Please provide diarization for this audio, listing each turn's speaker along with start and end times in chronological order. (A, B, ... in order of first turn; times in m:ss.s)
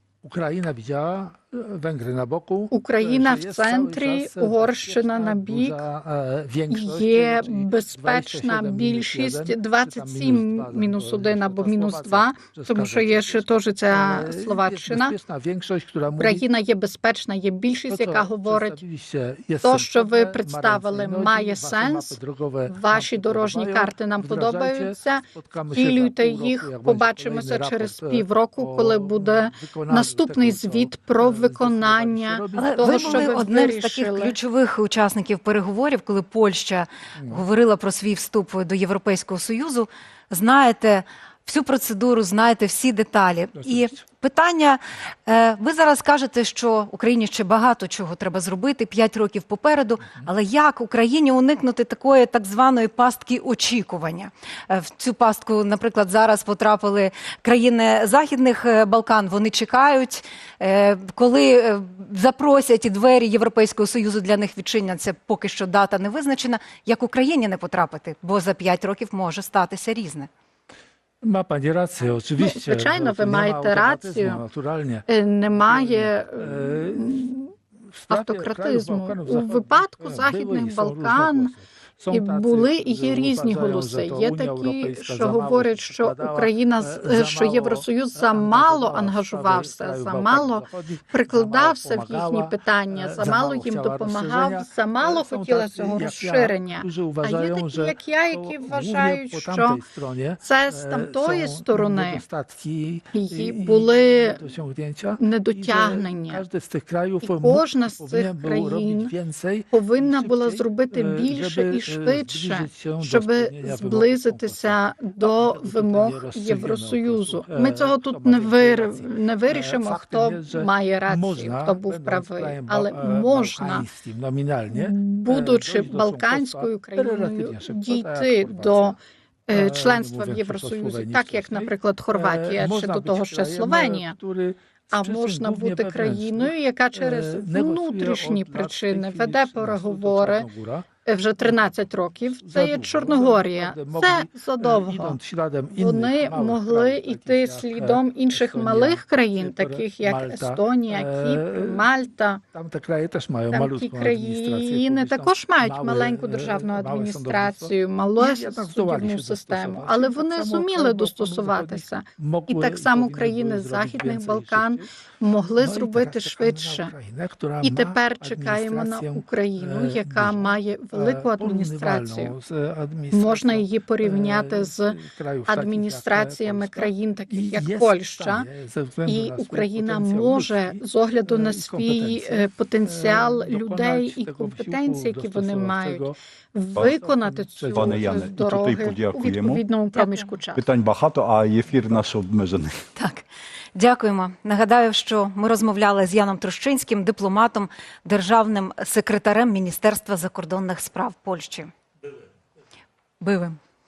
0:00.2-0:16.4 A
0:02.7-0:05.9 B
0:06.7-0:15.2 B
0:16.2-0:18.8 B
0:17.9-0:33.4 A
0:19.6-0:34.4 B
0:32.6-1:10.3 C
0:37.2-0:37.4 A
0:43.6-0:44.0 A
1:11.2-1:15.1 A
1:12.4-1:14.4 B
1:15.1-1:17.5 B
1:15.6-1:17.1 A
1:18.0-2:09.0 A
1:18.1-1:21.5 B
1:22.1-1:39.8 B
1:40.4-1:42.2 B
1:43.1-1:44.5 B
1:45.2-1:46.4 B
1:47.2-1:49.1 B
1:49.7-2:03.9 B
2:04.7-2:14.2 B
2:09.5-2:21.0 A
2:14.9-2:20.5 B
2:21.0-2:25.2 B
2:22.3-2:31.9 A
2:25.7-2:32.4 B
2:32.5-2:44.8 A
2:33.5-2:46.9 B
2:45.6-3:06.2 A
2:47.6-2:52.4 B
2:53.1-2:58.5 B
2:59.1-3:10.6 B
3:06.8-3:08.3 A
3:07.7-3:09.6 D
3:10.6-3:12.8 D
3:13.0-3:13.2 C
3:13.8-3:21.7 C
3:23.2-3:23.6 C